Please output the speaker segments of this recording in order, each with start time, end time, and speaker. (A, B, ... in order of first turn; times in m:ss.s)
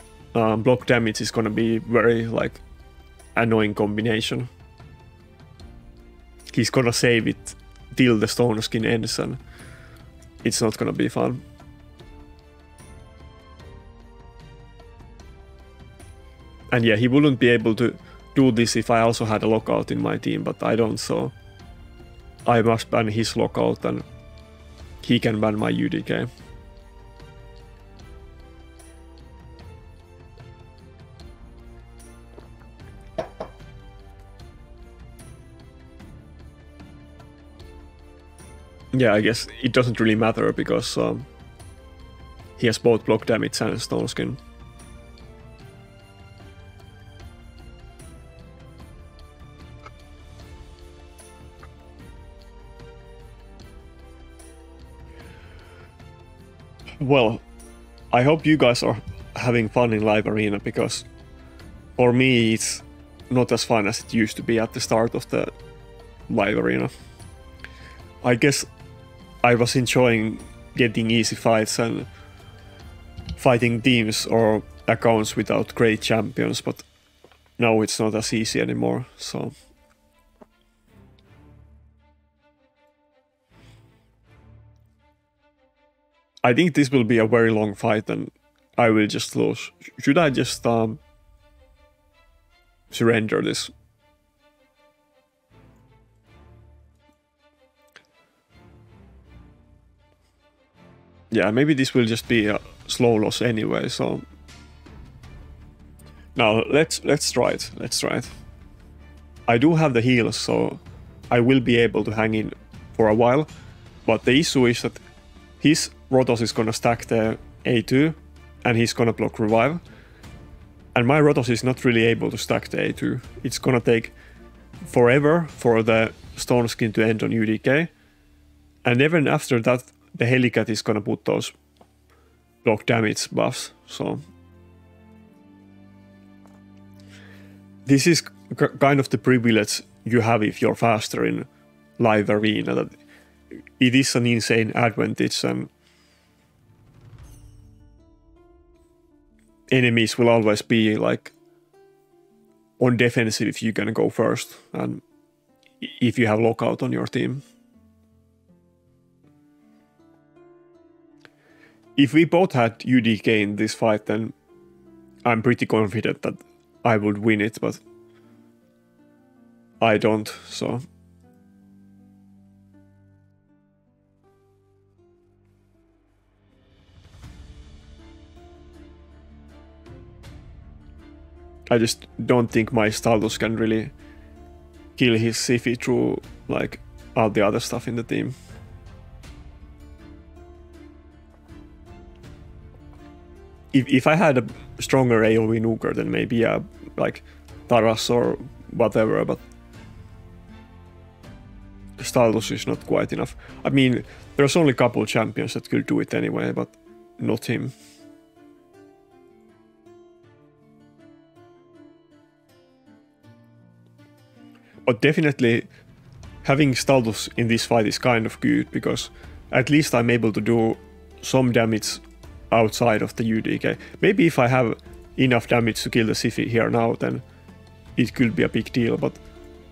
0:00.3-0:02.6 A
0:03.4-0:04.5 A
0:06.5-0:09.4 A
0:10.4-0:11.4 A
0:16.7-0:21.3 A
0:22.4-0:24.0 A
0:25.0-0:26.3 A
0:38.9-0:41.2 A
0:42.6-0:44.4 A
0:57.0-0:57.4 A
0:58.1-1:01.0 A
1:02.0-1:05.5 A
1:06.3-1:06.9 A
1:08.2-1:08.7 A
1:09.4-1:12.1 A
1:13.4-1:16.9 A
1:17.6-1:19.5 A
1:26.4-1:31.0 A
1:32.9-1:33.7 A
1:41.3-1:44.2 A
1:46.3-1:48.3 A
1:49.5-1:53.5 A
1:54.0-1:55.0 A
1:55.6-1:59.8 A
2:00.9-2:04.1 A
2:04.8-2:07.9 A
2:08.8-2:11.5 A
2:12.6-2:14.2 A
2:17.8-2:21.5 A
2:22.0-2:22.9 A
2:23.8-2:25.7 A
2:29.7-2:31.3 A
2:32.8-2:35.0 A
2:35.8-2:37.4 A
2:42.0-2:44.3 A
2:45.2-2:47.8 A
2:49.8-2:50.8 A
3:01.7-3:03.9 A
3:05.0-3:08.3 A
3:13.7-3:19.4 A
3:22.0-3:27.7 A
3:34.8-3:35.7 A
3:36.4-3:47.2 A
3:48.0-3:49.2 A